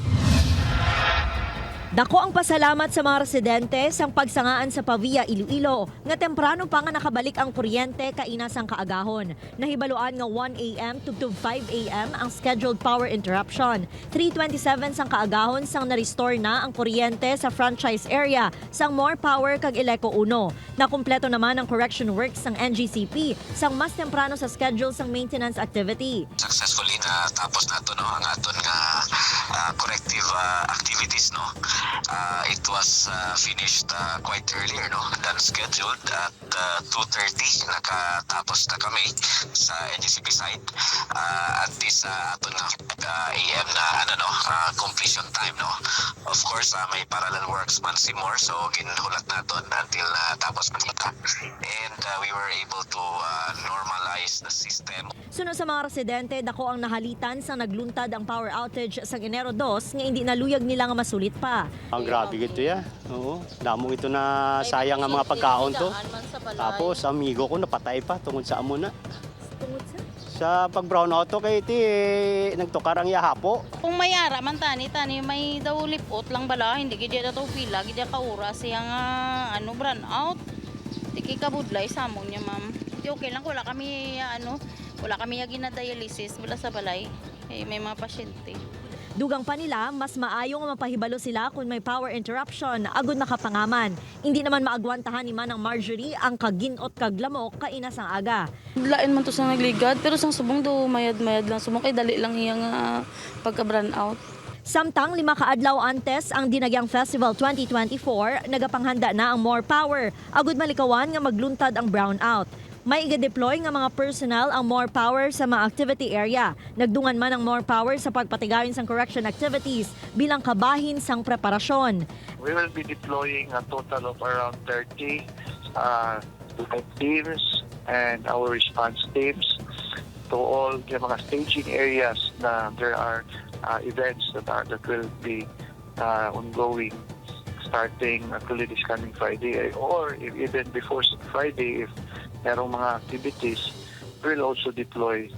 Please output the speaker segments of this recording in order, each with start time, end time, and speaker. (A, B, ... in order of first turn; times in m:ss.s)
0:02.0-0:26.3 A
0:26.4-0:29.0 B
0:29.6-0:31.5 B
0:32.1-0:40.6 B
0:41.2-0:45.7 B
0:46.3-0:55.1 B
0:55.3-1:01.7 A
1:01.9-1:05.9 C
1:02.0-1:02.8 D
1:04.6-1:07.0 D
1:06.6-1:08.9 C
1:10.3-1:13.6 C
1:13.8-1:19.0 D
1:19.5-1:20.4 D
1:21.2-1:28.6 D
1:29.2-1:38.4 A
1:38.8-1:42.9 E
1:43.4-1:44.2 E
1:44.7-2:02.0 A
2:02.4-2:09.6 F
2:10.3-2:15.5 F
2:16.0-2:17.0 F
2:17.6-2:21.9 F
2:22.4-2:25.3 F